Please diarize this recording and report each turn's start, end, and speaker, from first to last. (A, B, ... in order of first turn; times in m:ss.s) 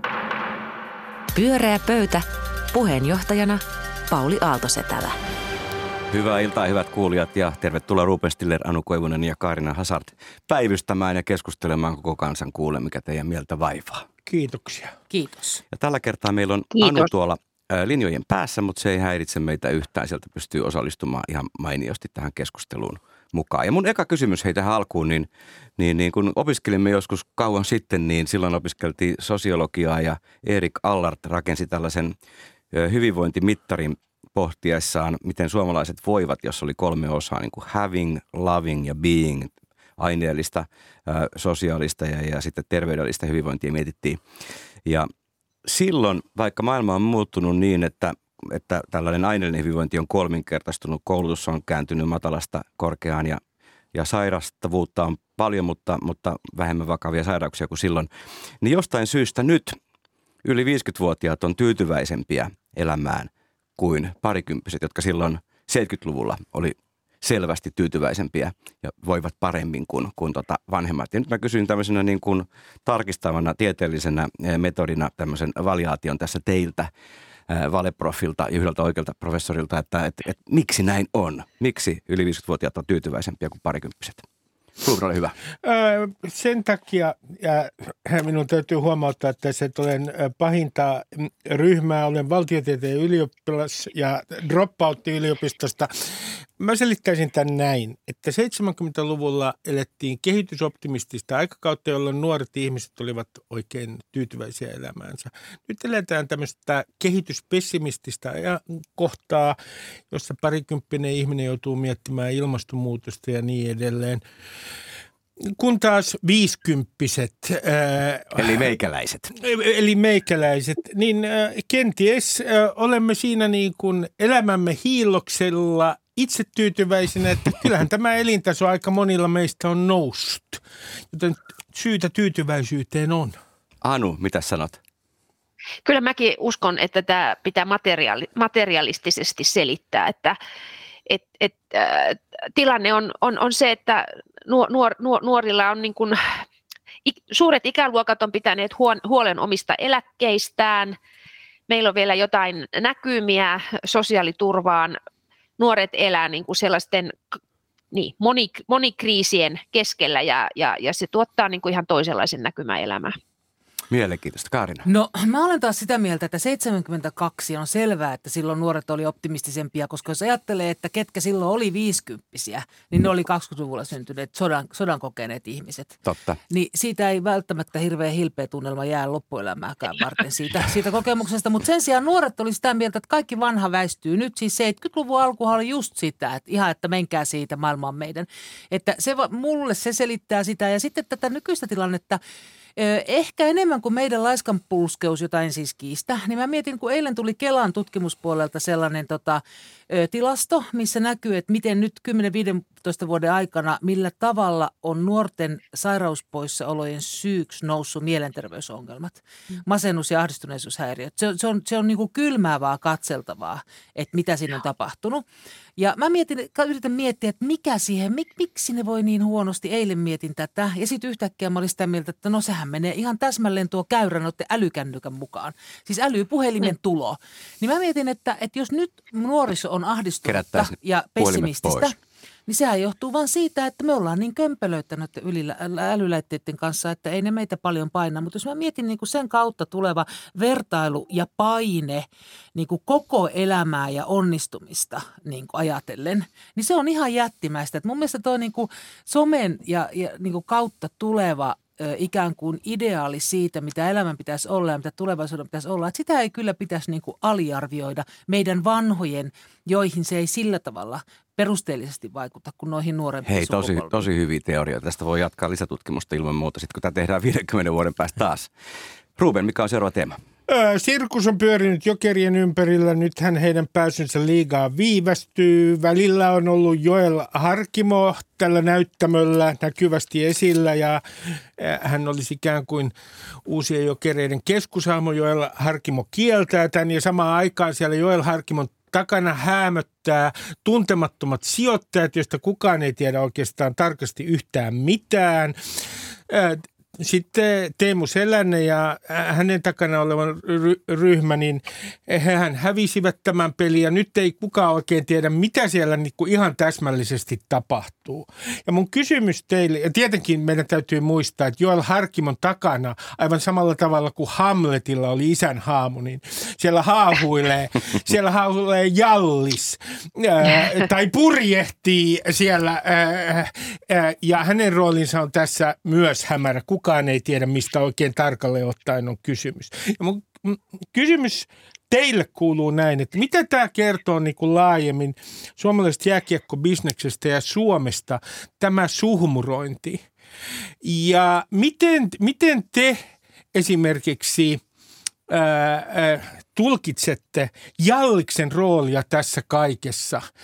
0:01.4-0:05.2 A
0:06.1-0:14.1 B
0:14.3-0:15.0 C
0:15.1-0:15.6 D
0:15.7-0:32.1 B
0:16.8-0:17.1 E
0:32.7-0:44.2 B
0:45.6-0:53.4 B
0:53.9-0:58.1 B
0:58.6-0:59.8 B
1:00.4-1:16.9 B
1:17.5-1:24.3 B
1:24.8-1:25.4 B
1:25.6-1:35.9 C
1:36.6-1:49.6 C
1:50.1-1:54.2 C
1:55.4-1:58.7 C
1:58.4-1:59.3 B
1:59.4-2:13.4 C
2:13.8-2:14.8 B
2:15.8-2:20.4 E
2:21.1-2:26.2 E
2:27.0-2:31.0 E
2:31.7-2:35.0 E
2:35.6-2:37.2 E
2:37.9-2:43.2 E
2:43.9-2:44.9 B
2:44.8-3:12.2 D
2:56.0-2:56.4 B
3:12.8-3:35.2 D
3:35.8-3:52.0 D
3:50.3-3:51.9 B
3:52.5-4:24.1 D
4:23.3-4:28.5 B
4:29.2-4:30.2 B
4:30.5-4:41.0 C
4:41.6-4:43.0 C
4:43.5-4:55.6 C
4:56.3-5:40.0 C
5:40.8-5:44.6 C
5:45.3-5:50.2 C